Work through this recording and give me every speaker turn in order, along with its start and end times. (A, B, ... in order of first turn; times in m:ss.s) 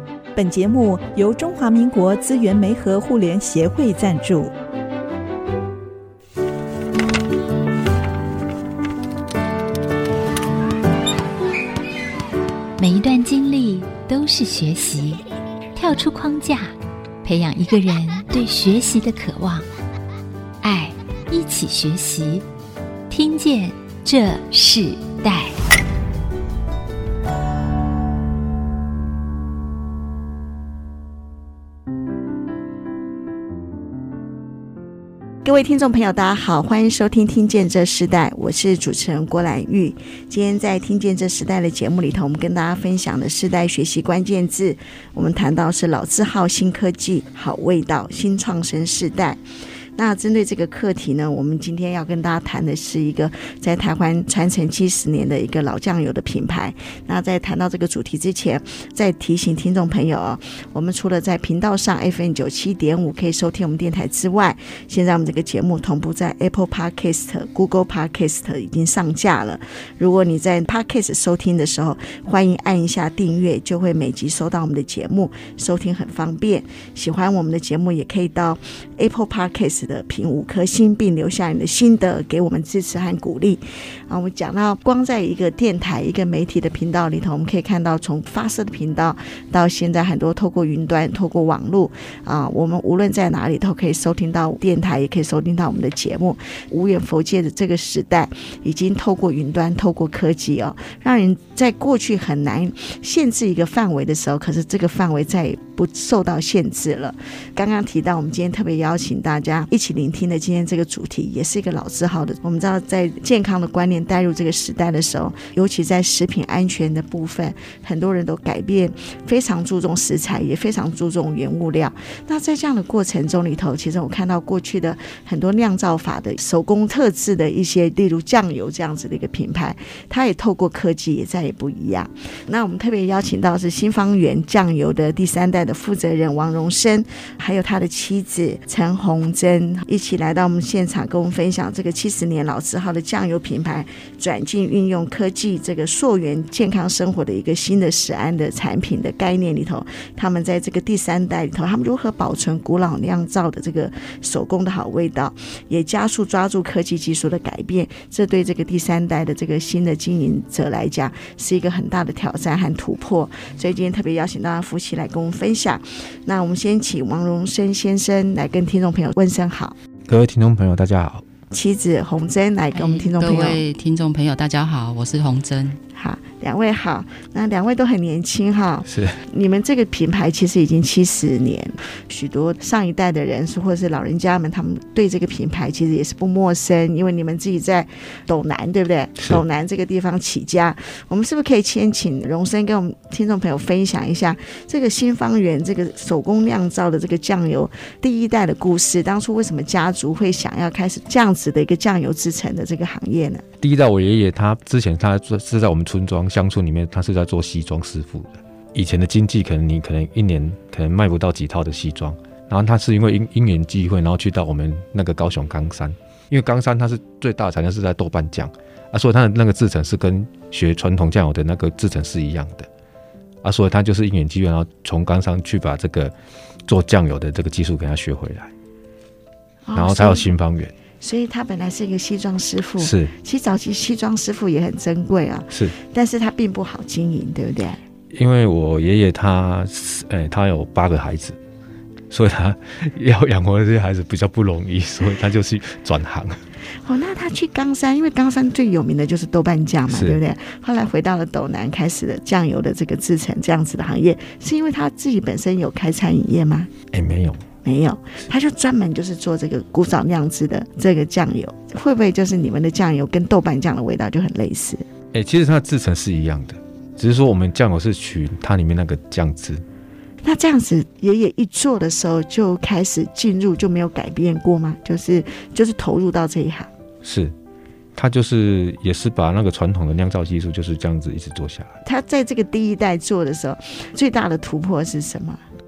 0:00.3-0:04.5 A
0:12.8-0:15.2 B
0:15.7-0:16.7 B
0:17.2-0:19.7 B
0:20.6-0:22.4 B
0:23.1-0:25.6 B
0:35.4-0:49.4 C
0:50.0-2:49.7 C
2:50.1-2:51.2 D
2:51.5-2:53.6 C
2:52.7-2:55.8 E
2:55.9-3:23.4 C
2:58.9-2:59.2 D
3:23.6-3:42.7 D
3:43.4-3:46.1 D
3:46.7-3:48.5 D
3:49.6-3:50.2 C
3:49.7-3:50.7 D
3:51.0-3:57.8 C
3:52.8-3:53.1 D
3:58.1-4:01.4 D
4:02.1-4:06.4 D
4:06.8-4:16.7 C
4:09.9-4:10.2 D
4:16.9-4:17.4 D
4:17.6-4:24.8 C
4:25.1-4:29.6 D
4:30.2-4:36.7 C
4:37.0-4:37.3 D
4:38.0-4:41.8 D
4:41.8-4:45.4 C